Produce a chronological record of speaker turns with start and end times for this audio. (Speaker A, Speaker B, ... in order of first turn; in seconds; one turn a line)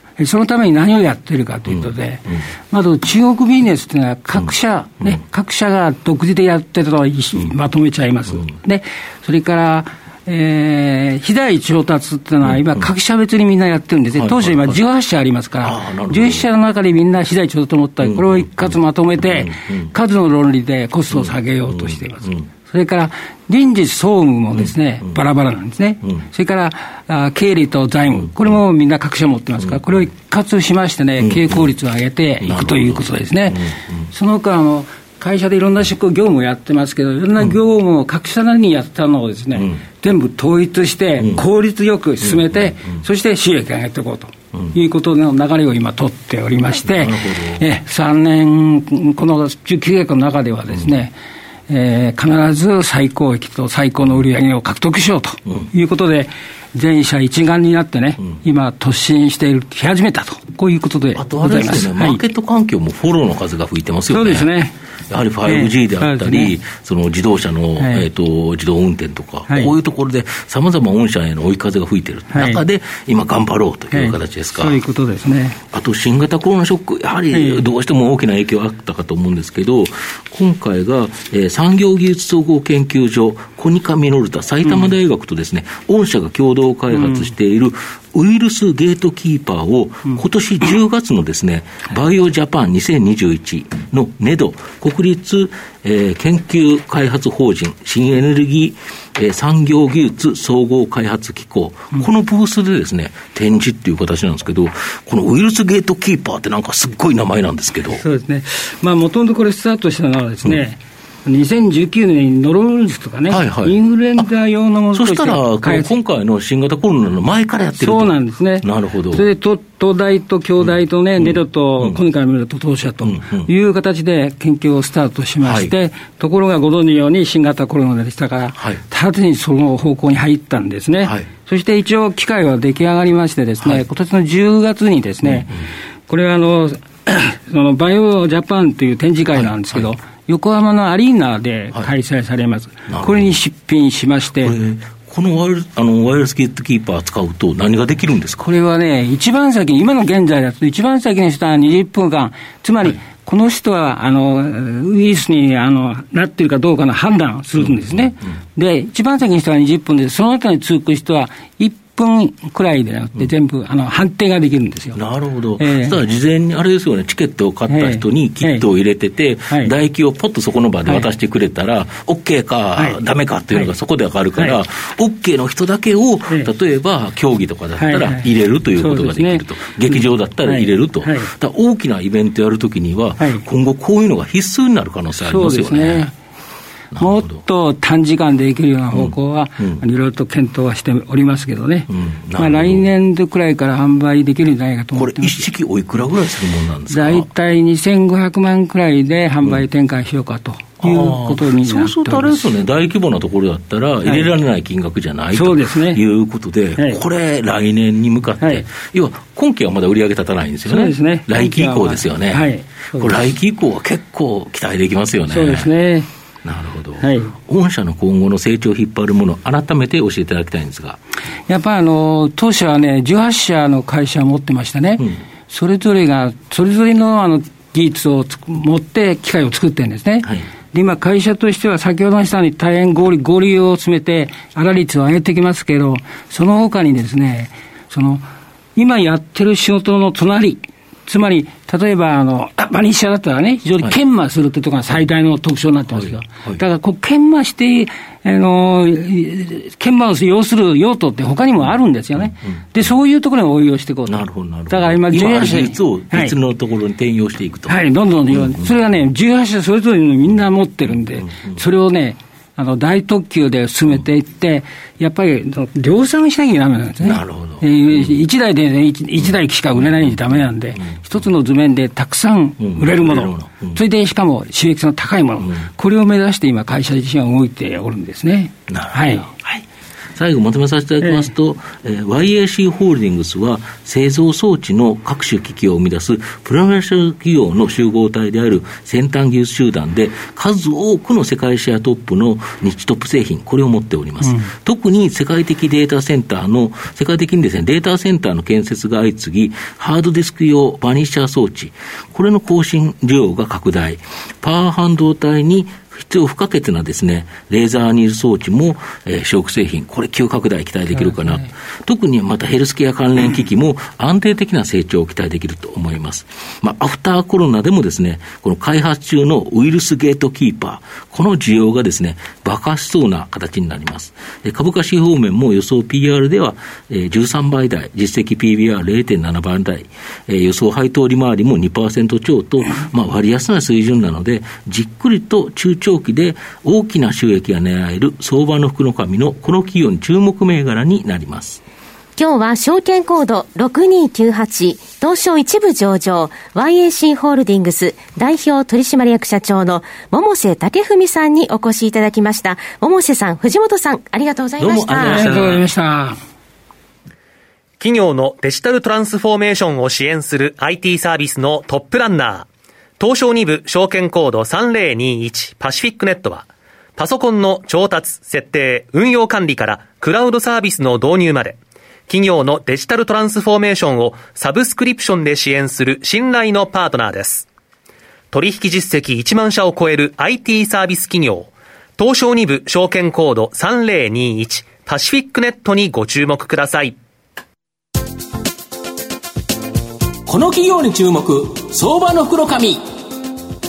Speaker A: 0.2-51.1
Speaker B: 1.7-2.5
Speaker B: 4.4-5.2
Speaker B: 12.4-12.9
Speaker B: 14.1-14.8
Speaker B: 15.6-16.5
Speaker B: 18.0-19.9
Speaker B: 21.1-22.5
Speaker B: 24.5-25.2
Speaker B: 28.1-28.6
Speaker B: 29.6-30.1
Speaker B: 31.2-31.7
Speaker B: 32.4-34.1
Speaker B: 39.5-39.8
Speaker B: 42.2-43.0
Speaker B: 46.8-47.7
Speaker A: 51.7-62.2
Speaker B: 61.1-64.5
Speaker A: 64.1-64.7
Speaker B: 65.1-74.8
Speaker A: 65.4-66.5
Speaker A: 67.8-68.1
Speaker A: 69.5-69.7
Speaker A: 72.3-72.6
Speaker A: 73.9-75.6
Speaker B: 75.7-108.0
Speaker A: 77.3-77.7
Speaker A: 86.9-87.2
Speaker A: 107.9-115.9
Speaker B: 113.3-114.3
Speaker B: 114.9-119.3
Speaker A: 117.8-135.5
Speaker B: 120.6-122.0
Speaker B: 123.0-123.5
Speaker B: 125.4-125.7
Speaker B: 128.6-128.8
Speaker B: 131.0-131.3
Speaker B: 135.2-135.7
Speaker A: 136.1-144.6
Speaker B: 139.3-139.9
Speaker B: 142.9-143.3
Speaker B: 144.4-148.4
Speaker A: 148.4-165.0
Speaker B: 157.6-158.3
Speaker B: 164.9-186.1
Speaker A: 165.6-166.0
Speaker A: 167.7-168.6
Speaker A: 177.8-181.3
Speaker A: 183.2-183.4
Speaker A: 185.2-186.1
Speaker B: 186.9-187.4
Speaker A: 187.0-195.4
Speaker B: 188.9-189.8
Speaker B: 191.9-192.9
Speaker B: 194.9-197.3
Speaker A: 196.9-202.5
Speaker B: 200.8-215.7
Speaker A: 204.0-204.3
Speaker A: 205.3-206.0
Speaker A: 206.8-207.0
Speaker A: 208.4-208.6
Speaker A: 210.7-213.2
Speaker A: 215.3-216.1
Speaker B: 216.4-221.0
Speaker A: 217.0-217.3
Speaker A: 221.5-238.2
Speaker A: 238.8-256.3
Speaker B: 245.9-246.6
Speaker B: 252.2-252.8
Speaker B: 254.1-258.8
Speaker A: 257.7-279.3
Speaker B: 260.9-261.6
Speaker B: 267.0-268.2
Speaker B: 269.2-271.3
Speaker B: 272.6-273.8
Speaker B: 278.7-279.6
Speaker B: 280.1-341.6
Speaker A: 281.0-281.3
Speaker A: 311.0-311.4
Speaker C: 342.1-355.2
Speaker B: 354.6-355.6
Speaker A: 355.0-356.2
Speaker D: 357.8-362.4
Speaker D: 363.0-366.4
Speaker D: 367.0-371.6
Speaker D: 372.1-377.4
Speaker D: 378.3-386.9
Speaker E: 390.2-392.8